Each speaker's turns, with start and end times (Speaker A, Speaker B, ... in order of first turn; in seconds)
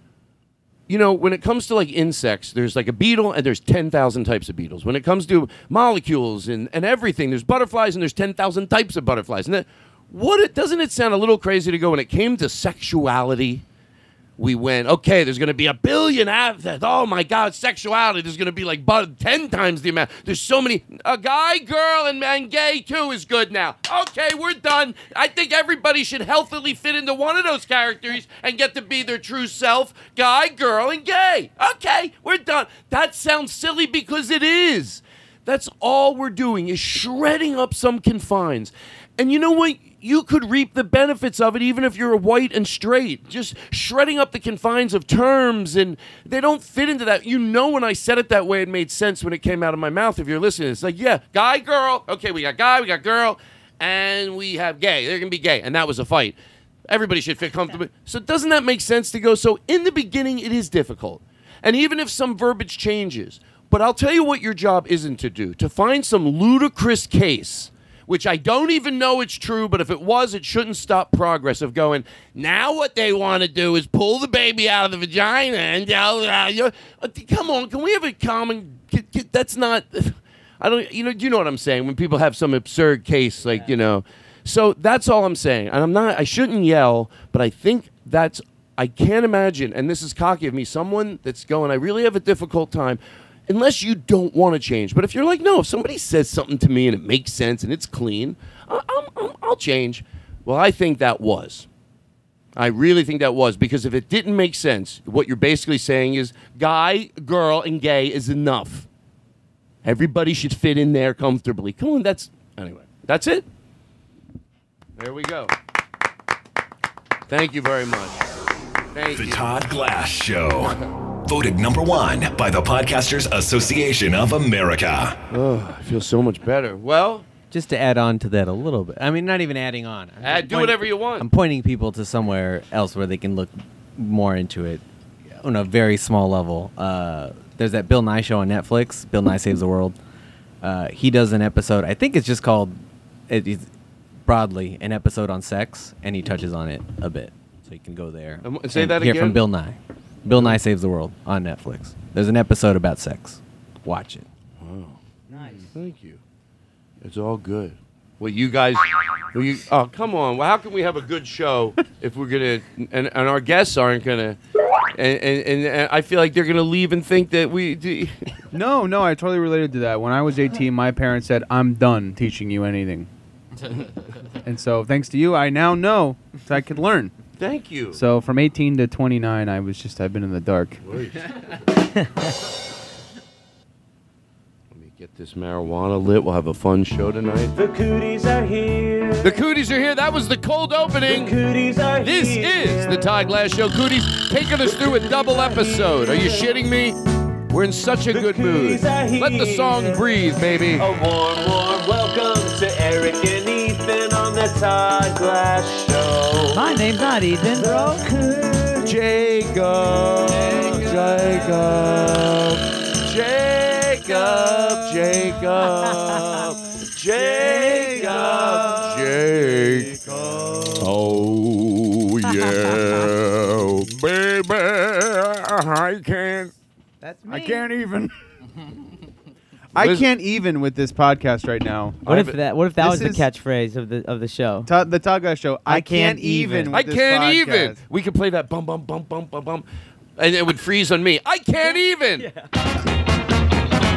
Speaker A: 0.9-13.6, 14.4-101.7, 102.5-108.9, 109.8-113.5, 115.0-115.5, 117.3-118.2, 118.9-119.5, 125.3-127.3, 130.2-131.3, 148.4-149.4, 150.3-150.6, 154.6-156.2, 157.0-164.4, 164.9-168.3, 177.4-178.0, 180.8-181.5, 184.7-187.5, 189.2-191.4, 192.0-197.0, 197.5-200.9, 208.8-220.0, 220.8-226.5, 229.8-230.1, 232.0-232.4, 236.7-239.7, 240.2-242.3
Speaker B: 119.1-125.2
Speaker C: 127.5-134.8, 135.4-140.0, 140.6-143.7, 144.2-154.3
Speaker D: 155.3-155.7, 206.5-208.0, 217.6-218.5, 220.0-220.9, 227.0-227.7, 232.1-234.7, 235.7-236.8, 241.6-242.5
Speaker E: 168.5-173.1, 174.4-177.1, 177.9-180.8, 217.4-220.8, 227.3-228.1, 229.7-232.0, 232.8-233.2, 234.7-237.8
Speaker F: 187.6-189.4, 191.1-193.0, 194.6-196.5, 198.1-200.0, 200.7-206.6, 207.5-209.0, 210.5-210.8